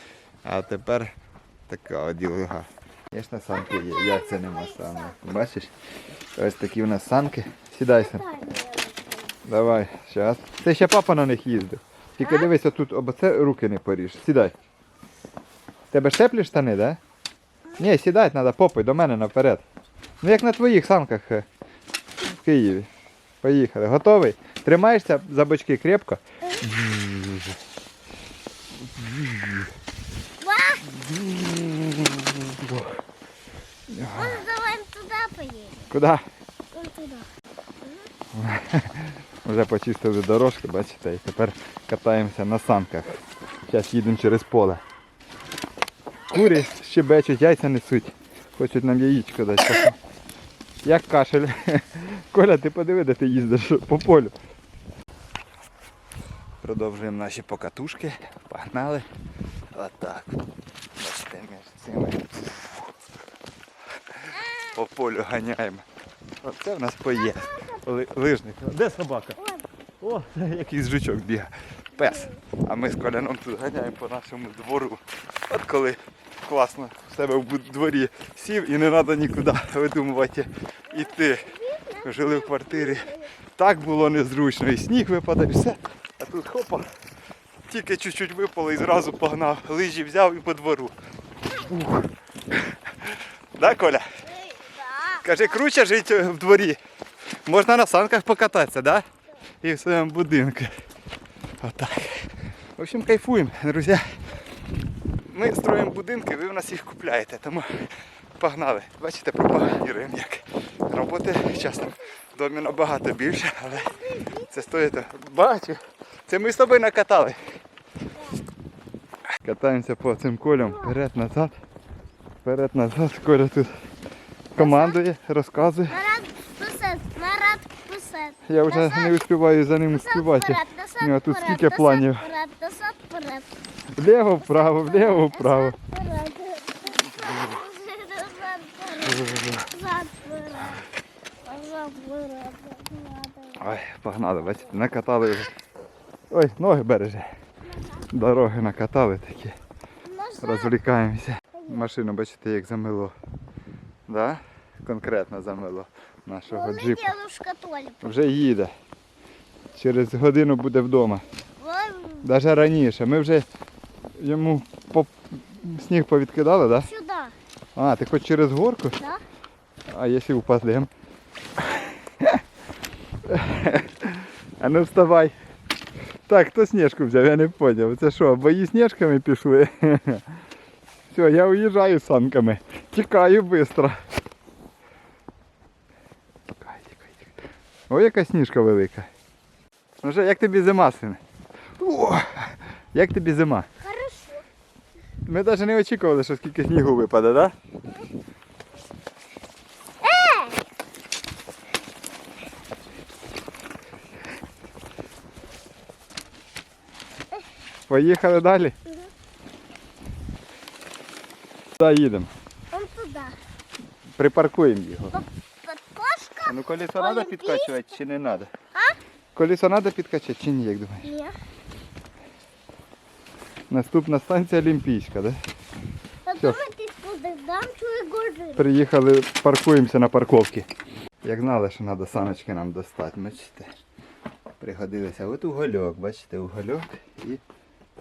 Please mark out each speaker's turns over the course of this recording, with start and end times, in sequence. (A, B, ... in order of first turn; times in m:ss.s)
0:00.4-0:01.1 A
0:01.7-0:05.7 A
0:03.6-0:05.2 B
0:06.4-0:08.2 A
0:07.9-0:09.4 B
0:09.5-0:14.6 A
0:12.2-0:12.5 B
0:15.9-0:17.0 A
0:17.8-0:19.6 A
0:20.2-0:21.5 A
0:22.3-0:22.9 A
0:23.4-0:27.6 A
0:28.9-0:29.7 A
0:30.4-0:30.9 B
0:30.9-0:33.0 A
0:33.9-0:34.4 A
0:34.1-0:35.9 B
0:35.9-0:36.2 A
0:36.7-0:37.3 B
0:37.8-0:38.1 B
0:38.3-0:44.8 A
0:46.3-0:50.0 A
0:50.8-0:54.3 A
0:56.6-0:59.1 A
0:59.7-1:00.4 A
1:01.0-1:02.9 A
1:04.4-1:04.7 B
1:04.7-1:05.8 A
1:06.4-1:09.4 A
1:07.2-1:07.8 B
1:09.4-1:09.7 B
1:10.0-1:21.5 A
1:12.0-1:12.4 B
1:20.9-1:23.3 B
1:22.0-1:26.9 A
1:27.7-1:31.0 A
1:31.6-1:32.1 A
1:33.0-1:34.0 A
1:34.3-1:35.4 B
1:35.2-1:36.8 A
1:37.4-1:39.1 A
1:39.6-1:40.7 A
1:41.6-1:44.2 A
1:45.3-1:53.9 A
1:53.7-1:54.6 B
1:54.5-1:57.4 A
1:58.2-1:58.4 B
1:59.4-2:01.6 A
2:00.6-2:01.0 B
2:02.4-2:03.7 A
2:04.5-2:06.0 A
2:04.6-2:05.0 B
2:05.9-2:09.2 B
2:08.5-2:12.3 A
2:09.9-2:13.5 B
2:14.0-2:15.8 A
2:14.5-2:20.8 B
2:19.0-2:19.6 A
2:21.4-2:23.7 B
2:23.6-2:25.5 A
2:26.3-2:27.3 A
2:27.8-2:28.1 B
2:28.1-2:29.6 A
2:30.0-2:30.7 B
2:30.4-2:33.2 A
2:31.6-2:31.9 B
2:34.1-2:37.1 A
2:36.5-2:38.2 B
2:38.0-2:38.7 A
2:39.7-2:41.2 A
2:41.6-2:42.3 B
2:42.2-2:43.5 A
2:44.2-2:46.9 A
2:46.8-2:47.4 B
2:47.8-2:49.0 A
2:49.9-2:50.9 A
2:51.6-2:52.4 A
2:53.3-2:55.4 A
2:56.3-3:00.2 A
3:01.1-3:04.0 A
3:06.5-3:07.3 A
3:07.9-3:09.1 A
3:10.0-3:11.2 A
3:11.8-3:13.7 A
3:13.8-3:14.4 B
3:15.2-3:17.5 A
3:20.0-3:20.6 B
3:27.9-3:28.8 A
3:31.8-3:32.3 A
3:32.7-3:33.4 B
3:34.2-3:35.2 A
3:35.1-3:37.9 B
3:36.4-3:38.5 A
3:39.4-3:41.1 A
3:41.0-3:41.3 B
3:43.7-3:45.4 A
3:46.2-3:48.6 B
3:48.6-3:50.7 A
3:51.2-3:53.7 A
3:54.6-3:57.4 A